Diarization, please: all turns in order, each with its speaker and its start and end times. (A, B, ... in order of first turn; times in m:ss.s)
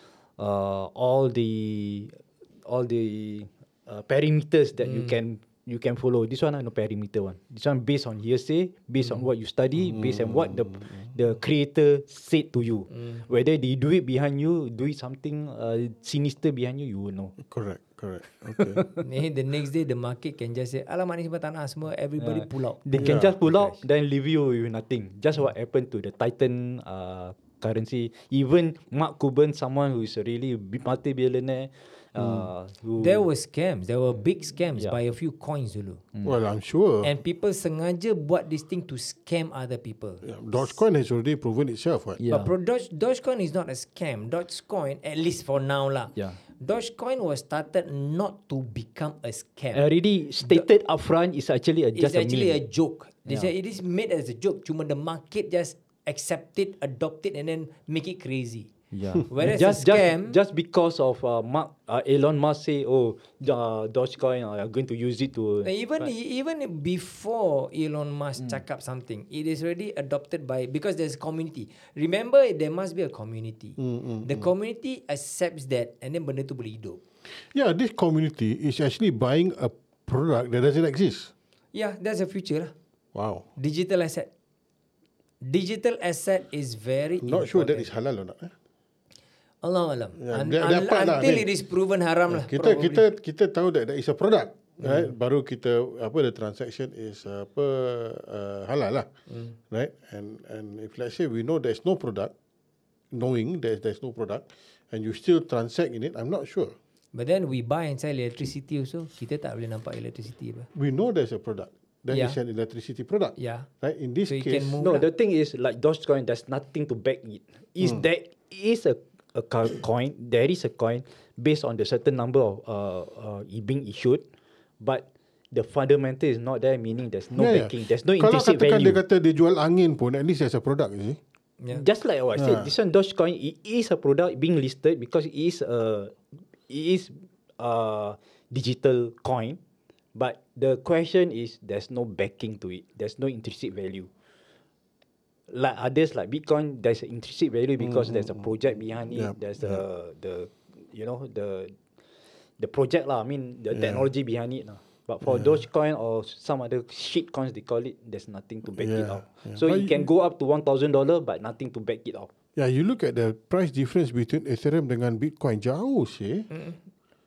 0:00.4-0:17.4 A
0:04.8-0:05.2 B
0:09.8-0:11.0 C
0:17.4-0:18.8 C
0:18.5-0:19.0 A
0:19.0-0:23.8 B
0:22.2-0:33.3 A
0:22.9-0:23.4 C
0:32.2-0:32.5 C
0:33.0-0:36.0 B
0:36.2-0:37.2 C
0:37.0-0:40.7 B
0:40.2-0:42.2 C
0:42.2-0:42.5 A
0:42.3-0:49.8 B
0:49.7-0:52.6 A
0:52.0-0:58.7 B
0:58.9-1:06.1 A
0:59.2-1:00.4 B
1:05.6-1:17.0 B
1:13.8-1:14.5 C
1:17.3-1:21.3 C
1:21.7-1:22.7 B
1:23.1-1:23.4 C
1:23.6-1:24.3 B
1:25.4-1:27.9 B
1:27.2-1:28.5 C
1:29.6-1:33.0 B
1:30.2-1:31.5 C
1:32.3-1:39.1 C
1:34.8-1:35.1 B
1:39.3-1:39.6 B
1:39.7-1:42.3 C
1:43.1-1:46.7 C
1:47.1-1:50.7 B
1:50.7-1:54.8 C
1:52.1-1:52.4 B
1:53.4-1:53.7 B
1:54.3-1:55.1 B
1:54.8-2:04.2 A
1:57.8-1:58.0 C
2:04.8-2:09.0 A
2:07.3-2:11.2 C
2:11.7-2:19.6 A
2:12.3-2:12.7 C
2:20.1-2:24.1 A
2:25.5-2:31.8 A
2:27.8-2:28.5 C
2:29.1-2:29.8 C
2:32.6-2:42.3 A
2:33.7-2:34.1 C
2:35.2-2:35.6 C
2:38.8-2:40.1 C
2:42.6-2:46.5 C
2:46.5-2:46.8 B